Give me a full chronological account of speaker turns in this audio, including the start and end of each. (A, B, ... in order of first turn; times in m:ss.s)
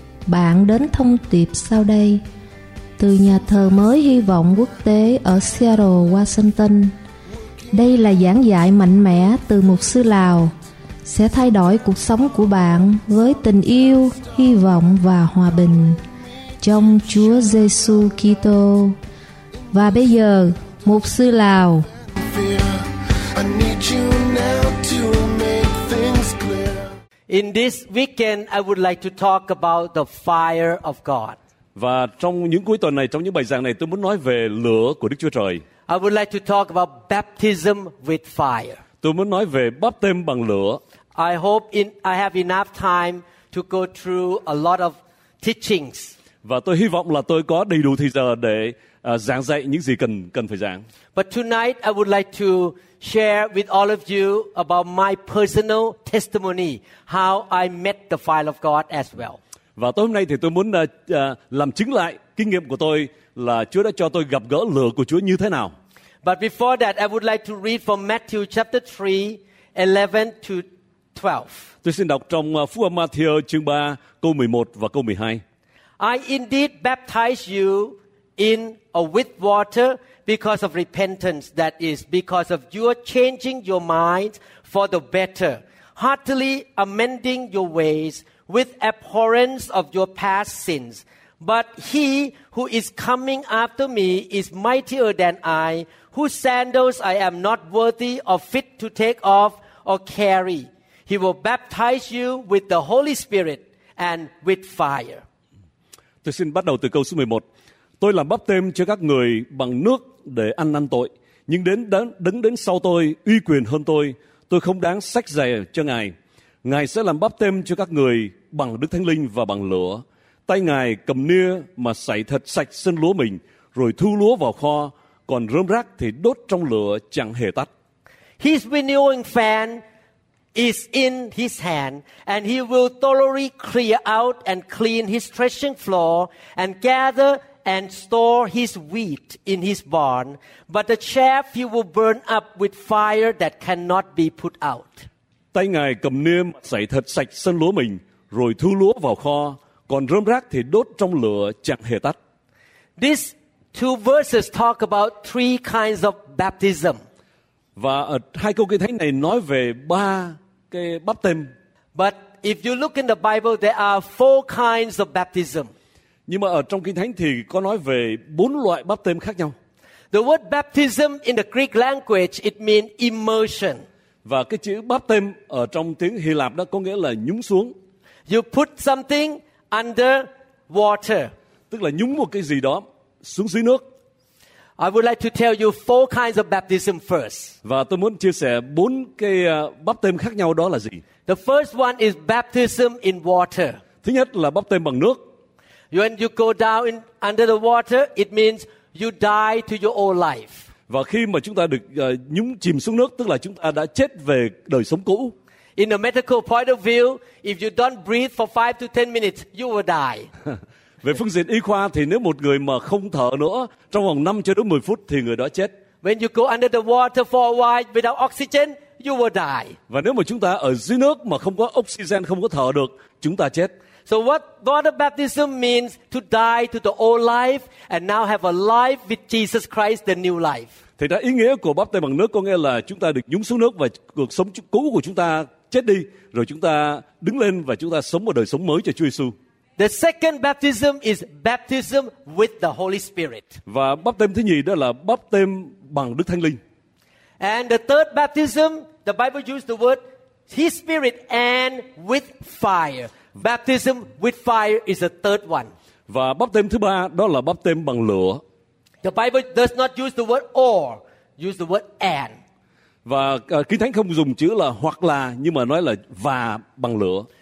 0:00.2-0:02.2 A
0:03.0-0:06.9 A
0:07.7-0:10.5 A
0:11.0-0:16.0 A
0:16.6-0:19.0 A
0:19.7-0:21.9 A
0:22.1-0:27.0 B
0:27.3-0:31.4 C
0:31.7-0:35.6 D
0:35.9-0:38.8 C
0:39.0-0:40.8 D
0:41.1-0:46.1 C
0:46.4-0:50.8 D
0:51.1-0:59.4 C
0:59.8-1:05.7 D
1:06.2-1:11.7 C
1:11.8-1:15.4 D
1:16.0-1:45.2 C
1:46.2-1:47.4 D
1:48.0-2:07.7 D
2:08.4-2:09.8 C
2:10.5-2:25.0 C
2:25.5-2:32.2 D
2:33.0-2:37.0 C
2:37.8-2:41.5 D
2:41.9-2:45.7 C
2:46.3-2:49.5 D
2:50.1-2:53.8 C
2:54.2-2:57.7 D
2:58.3-3:01.3 C
3:01.7-3:03.8 D
3:04.8-3:07.5 C
3:07.6-3:11.0 D
3:11.2-3:13.8 C
3:14.0-3:15.3 D
3:15.9-3:20.7 C
3:20.9-3:25.3 D
3:25.8-3:30.3 C
3:31.0-3:35.7 D
3:36.0-3:39.8 C
3:39.9-3:43.7 D
3:44.1-3:50.7 C
3:51.0-3:59.3 D
3:59.8-4:03.6 C
4:03.6-4:06.6 D
4:07.4-4:15.7 C
4:16.1-4:18.4 D
4:19.0-4:22.4 C
4:23.0-4:27.3 D